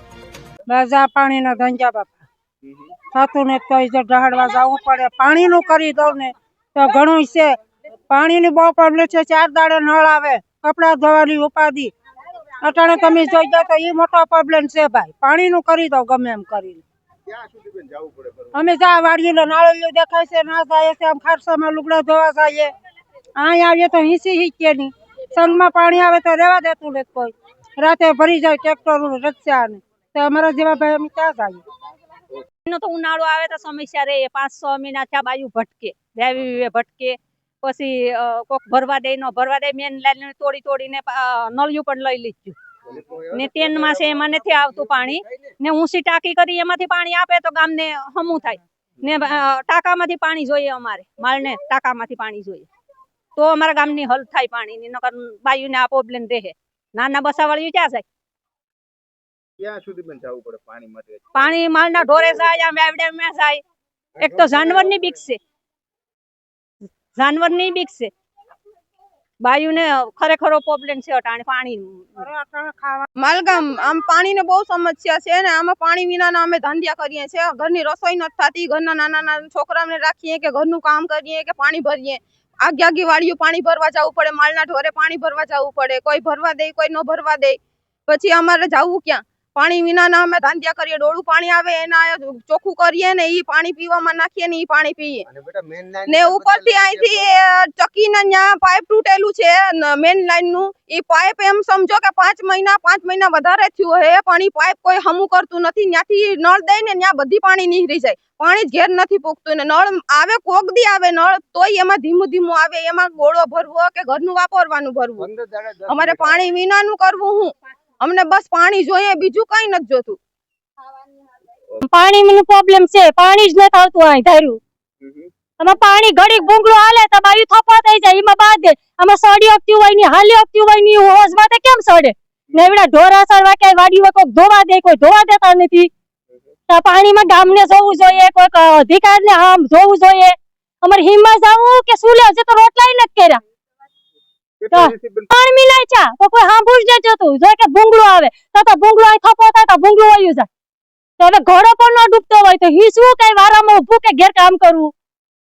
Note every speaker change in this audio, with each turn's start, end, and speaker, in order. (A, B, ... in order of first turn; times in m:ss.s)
0:00.7-0:02.2 A
0:03.1-0:07.5 A
0:08.1-0:11.9 A
0:12.6-0:16.8 A
0:17.3-0:18.5 B
0:18.5-0:22.7 A
0:23.4-0:31.6 A
0:32.7-0:42.6 C
0:42.9-0:45.2 B
0:43.3-0:52.7 C
0:53.4-0:58.0 C
0:59.6-1:02.3 B
1:01.3-1:03.6 C
1:04.2-1:05.4 C
1:04.2-1:05.0 B
1:07.1-1:08.1 C
1:09.4-1:12.2 C
1:12.2-1:13.1 A
1:13.2-1:35.2 D
1:35.2-1:37.3 B
1:36.1-1:55.3 D
1:55.2-1:56.4 B
1:55.9-2:00.2 D
2:01.8-2:04.6 E
2:05.0-2:05.3 B
2:05.6-2:15.9 E
2:16.7-2:23.4 E
2:24.6-2:25.3 B
2:24.7-2:30.5 E
2:31.2-2:34.9 E